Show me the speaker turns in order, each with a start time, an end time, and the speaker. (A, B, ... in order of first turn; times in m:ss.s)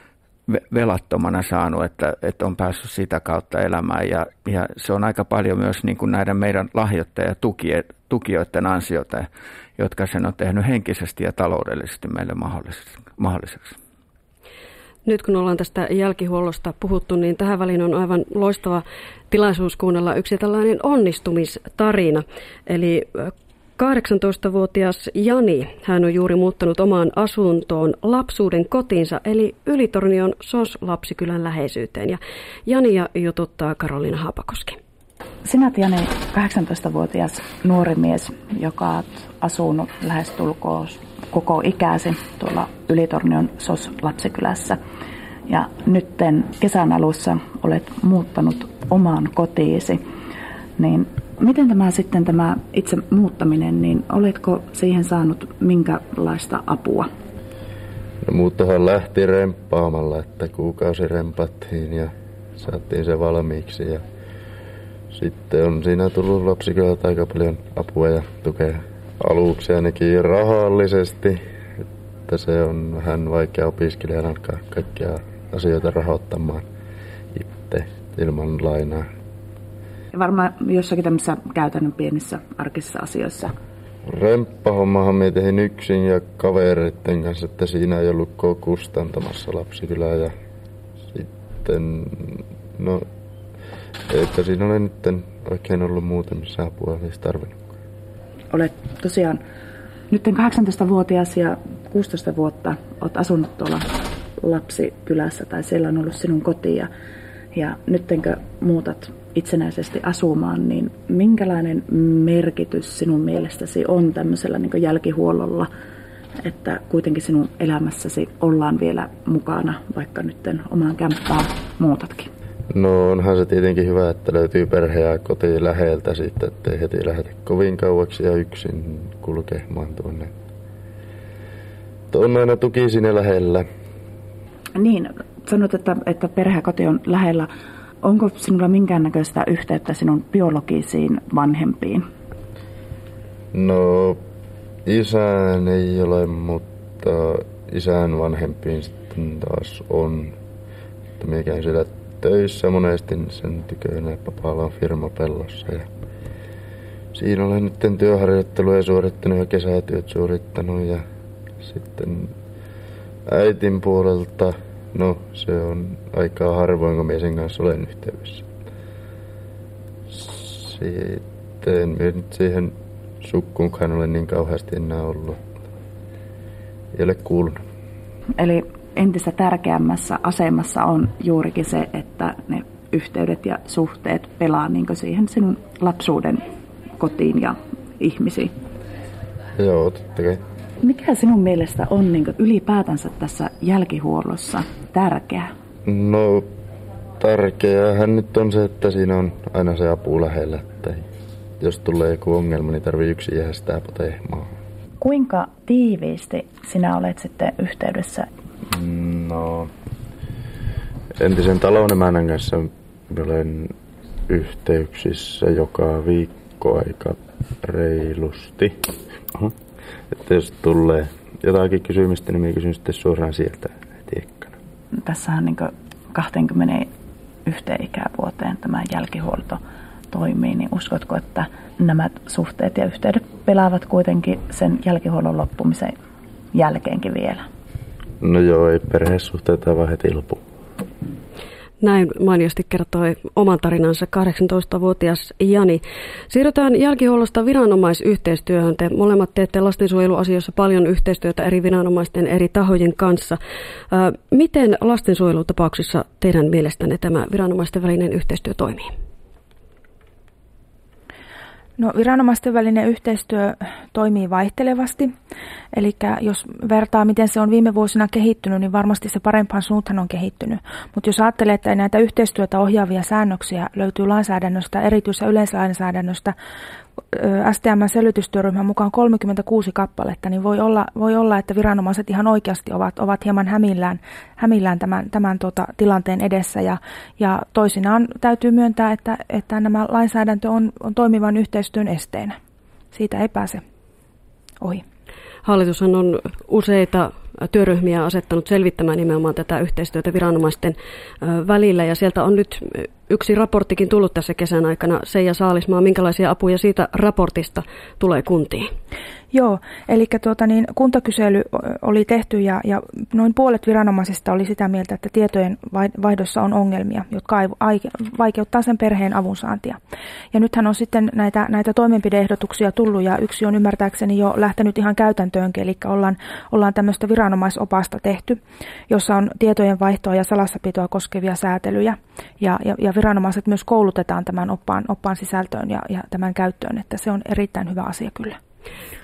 0:00.5-0:13.8 A
0:15.0-0:34.8 B
0:35.4-0:44.8 C
0:45.5-0:50.0 C
0:50.8-0:57.1 C
0:58.2-1:04.1 D
1:05.1-1:11.4 D
1:12.3-1:16.7 D
1:17.3-1:19.1 D
1:20.1-1:23.5 C
1:24.1-1:30.3 D
1:31.1-1:33.1 D
1:34.1-1:37.7 D
1:38.5-1:39.4 C
1:40.1-1:46.9 C
1:47.5-1:55.7 C
1:56.4-2:02.3 C
2:02.7-2:10.3 D
2:12.1-2:13.7 D
2:14.8-2:17.5 C
2:18.0-2:22.1 C
2:23.5-2:24.2 D
2:24.8-2:30.4 D
2:31.2-2:35.9 D
2:37.1-2:41.0 D
2:41.6-2:42.4 D
2:43.3-2:48.5 D
2:50.1-2:55.5 D
2:56.9-2:57.6 D
2:58.4-3:06.4 C
3:07.0-3:08.5 C
3:09.6-3:10.4 D
3:10.8-3:15.5 C
3:15.8-3:16.5 D
3:17.2-3:21.0 D
3:21.6-3:24.6 D
3:25.0-3:28.3 C
3:28.7-3:29.7 D
3:31.2-3:33.7 D
3:34.3-3:39.5 D
3:40.1-3:44.6 D
3:45.0-3:46.9 C
3:47.4-3:56.0 C
3:56.5-3:57.5 C
3:58.2-4:00.4 D
4:01.8-4:13.4 B
4:13.9-4:18.9 B
4:21.8-4:25.1 E
4:25.7-4:36.4 E
4:37.1-4:52.4 E
4:52.9-4:53.6 E
4:55.4-5:08.7 B
5:09.3-5:19.8 E
5:20.3-5:38.4 E